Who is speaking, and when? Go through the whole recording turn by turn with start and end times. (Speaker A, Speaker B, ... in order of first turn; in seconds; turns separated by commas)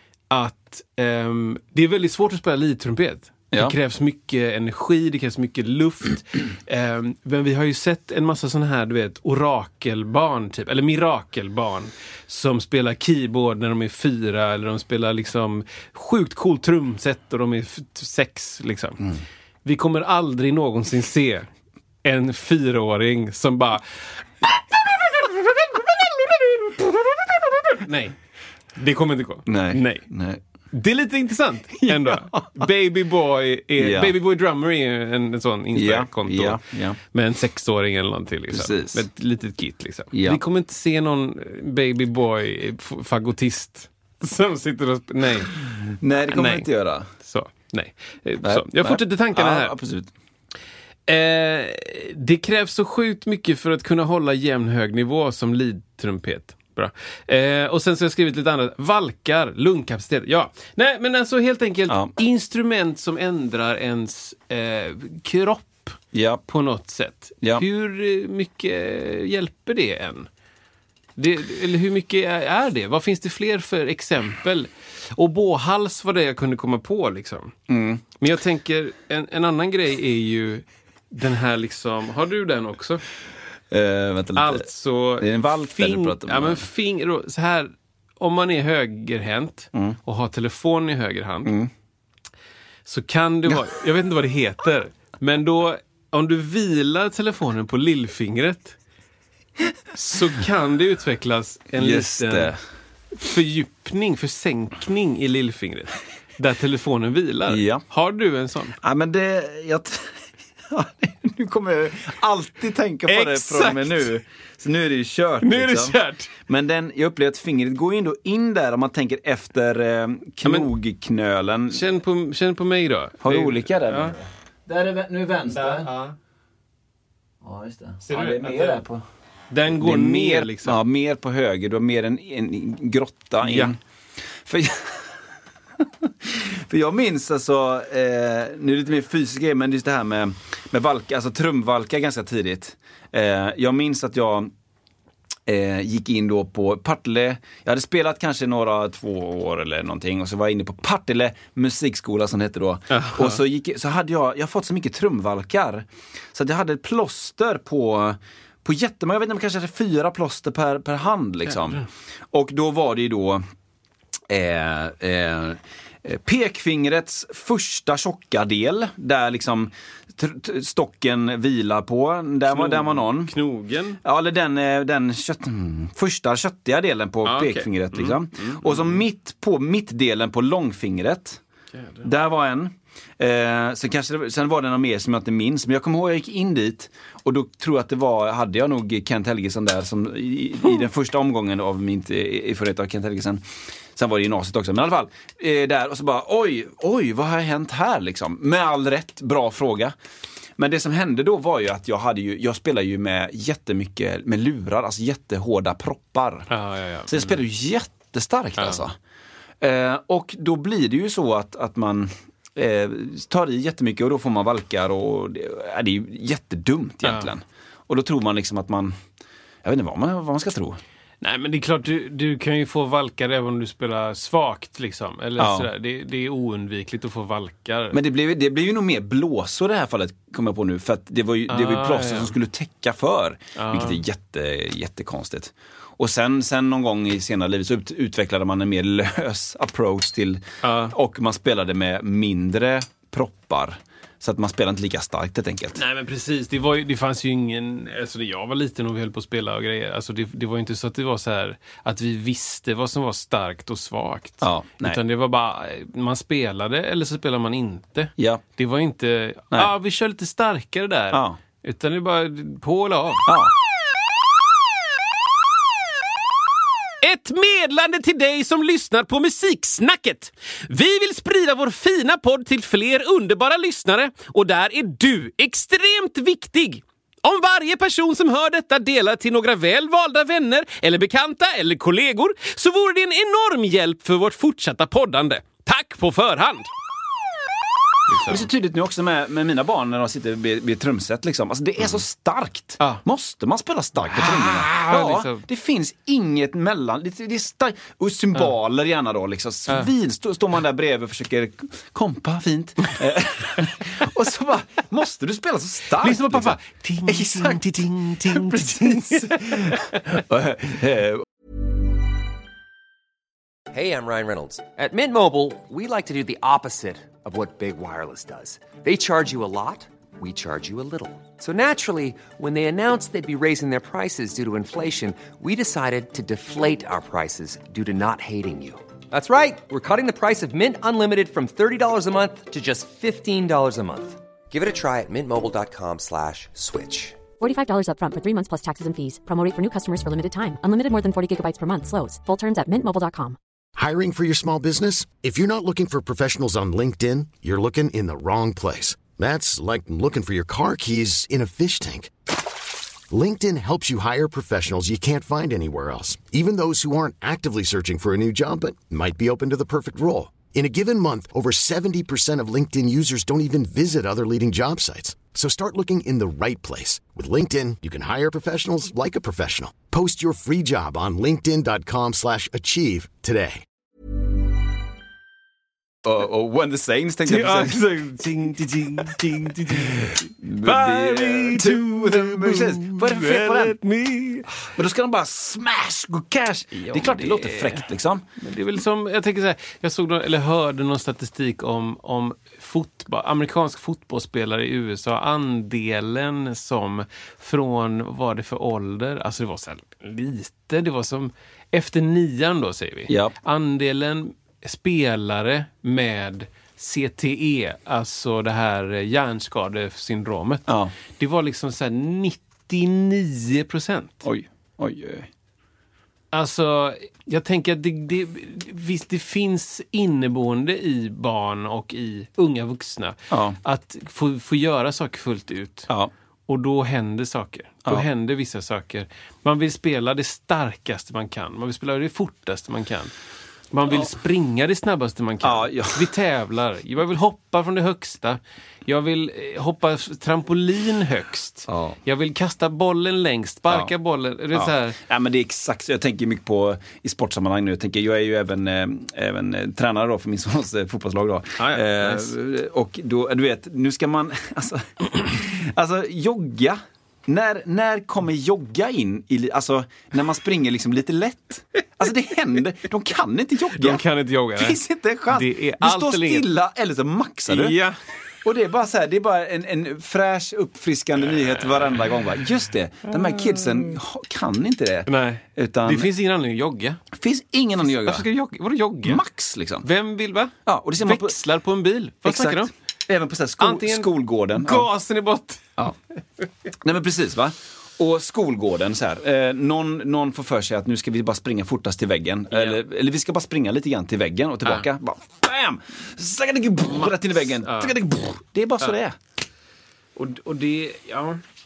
Speaker A: 0.3-19.0, Speaker A: 19.6-21.5, Speaker A: 22.0-24.2, Speaker B: 26.2-27.7, Speaker A: 27.8-28.1, Speaker A: 28.8-30.1, Speaker B: 29.5-30.4, Speaker A: 30.7-45.6, Speaker B: 31.9-32.6, Speaker B: 33.8-34.1, Speaker B: 35.7-37.0, Speaker B: 38.5-39.0, Speaker B: 40.1-40.4, Speaker B: 46.0-47.1, Speaker A: 46.3-49.7, Speaker B: 48.4-50.1, Speaker A: 51.1-70.3, Speaker B: 61.9-62.1, Speaker B: 66.1-66.4, Speaker A: 71.2-77.5, Speaker B: 77.7-78.0, Speaker A: 78.2-83.0, Speaker B: 83.7-84.7, Speaker A: 84.4-91.5, Speaker B: 85.2-86.6, Speaker A: 92.9-98.8, Speaker A: 100.0-102.5, Speaker B: 101.8-102.6, Speaker A: 103.2-108.8, Speaker B: 107.5-107.8, Speaker B: 108.8-110.2, Speaker B: 110.7-121.8, Speaker A: 113.1-114.1, Speaker A: 115.4-116.3, Speaker A: 120.5-120.7, Speaker A: 121.7-124.2, Speaker B: 123.2-125.9, Speaker A: 125.5-126.1, Speaker B: 127.4-129.0, Speaker A: 128.0-128.8, Speaker A: 129.5-130.8, Speaker B: 129.8-133.8, Speaker A: 133.4-133.8, Speaker B: 134.4-135.2, Speaker B: 135.8-144.5, Speaker B: 145.5-163.4, Speaker A: 152.9-153.4, Speaker B: 164.3-173.3, Speaker A: 172.5-174.0, Speaker B: 174.0-181.4, Speaker A: 177.2-179.0, Speaker A: 181.7-182.1, Speaker B: 182.0-193.4, Speaker B: 193.9-199.9, Speaker B: 200.6-206.5, Speaker A: 206.5-207.4, Speaker B: 207.1-209.0, Speaker A: 208.6-208.8, Speaker B: 209.6-218.9, Speaker A: 217.0-217.3, Speaker B: 219.6-220.8, Speaker A: 221.2-228.0, Speaker B: 225.4-225.7, Speaker B: 227.9-245.8, Speaker A: 231.5-232.3, Speaker A: 233.6-234.0, Speaker A: 240.6-240.9, Speaker A: 245.8-263.3, Speaker B: 254.4-255.0, Speaker B: 261.1-261.4, Speaker B: 263.3-263.5, Speaker A: 267.0-286.7, Speaker A: 288.1-288.5, Speaker B: 288.3-311.2, Speaker A: 294.1-295.4, Speaker A: 306.0-310.0, Speaker C: 313.7-337.2, Speaker D: 337.4-343.4, Speaker E: 343.8-352.1, Speaker E: 353.1-373.6, Speaker B: 376.1-377.8, Speaker A: 377.2-384.6, Speaker B: 380.0-383.8, Speaker B: 384.8-388.2, Speaker A: 386.7-414.2, Speaker B: 403.1-403.3, Speaker B: 410.7-410.9, Speaker B: 414.2-415.3, Speaker A: 416.3-425.9, Speaker B: 423.3-423.6, Speaker A: 426.5-433.1, Speaker A: 433.7-445.0, Speaker B: 435.4-436.1, Speaker B: 441.7-442.0, Speaker B: 444.5-464.0, Speaker A: 451.6-452.3, Speaker A: 463.8-464.8, Speaker B: 464.6-467.8, Speaker A: 465.3-466.5, Speaker A: 467.5-468.0, Speaker B: 468.4-476.1, Speaker A: 471.6-472.0, Speaker A: 473.1-473.9, Speaker A: 475.1-477.0, Speaker B: 477.1-478.3, Speaker A: 477.8-479.2, Speaker B: 479.0-479.9, Speaker A: 479.8-482.7, Speaker B: 480.7-481.4, Speaker B: 482.2-484.9, Speaker A: 483.6-485.7, Speaker B: 486.8-499.2, Speaker A: 492.5-492.8, Speaker A: 496.9-498.0, Speaker A: 500.2-501.4